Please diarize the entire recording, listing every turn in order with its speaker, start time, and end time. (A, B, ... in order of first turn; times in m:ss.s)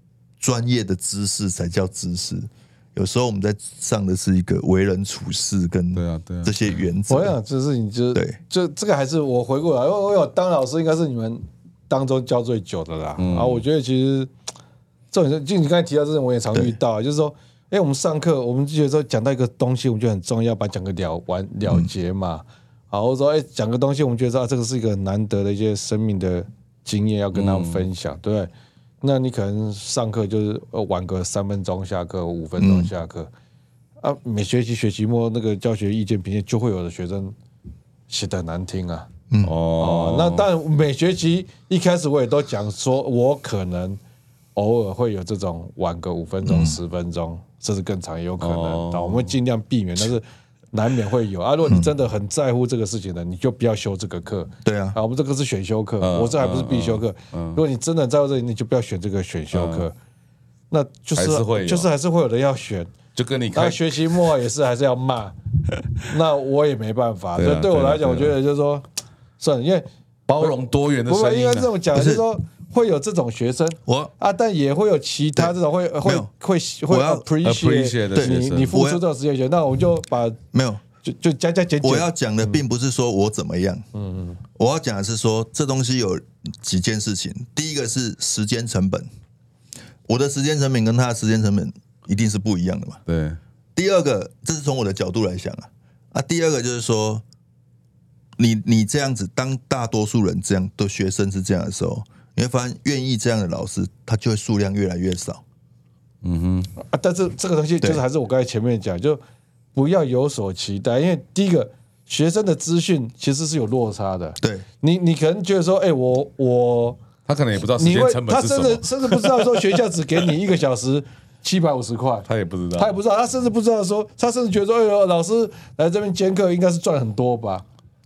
0:00.4-0:07.4 A
0:05.9-0:06.6 B
0:07.1-0:14.3 C
0:13.2-0:13.6 B
0:15.1-0:28.5 C
0:27.3-0:27.9 B
0:29.0-0:33.3 C
0:32.6-0:32.9 A
0:34.0-0:37.4 C
0:38.1-0:39.1 C
0:39.3-0:39.6 A
0:39.4-0:40.5 B
0:39.8-0:44.0 C
0:44.6-0:59.9 C
0:46.4-0:46.8 A
0:48.4-0:49.4 B
0:54.6-0:55.0 A
0:56.0-0:57.6 B
0:59.5-0:59.9 B
1:00.7-1:02.9 C
1:01.2-1:01.9 B
1:03.2-1:04.2 B
1:03.5-1:05.4 C
1:06.1-1:08.8 C
1:07.4-1:08.4 B
1:09.4-1:09.9 C
1:10.3-1:11.7 B
1:10.4-1:20.4 C
1:11.9-1:12.2 A
1:13.8-1:14.1 A
1:15.4-1:16.3 A
1:16.9-1:17.2 A
1:17.4-1:18.8 B
1:18.1-1:19.0 A
1:20.5-1:20.8 A
1:21.0-1:22.6 C
1:21.8-1:23.9 A
1:23.9-1:24.4 C
1:24.6-1:29.1 A
1:30.1-1:33.0 A
1:33.1-1:33.4 B
1:33.8-1:37.2 A
1:38.4-1:45.4 A
1:46.2-1:46.7 B
1:46.8-1:49.2 C
1:49.7-1:57.0 C
1:54.4-1:54.6 A
1:57.3-1:59.6 B
1:57.8-2:07.6 C
2:02.3-2:03.0 B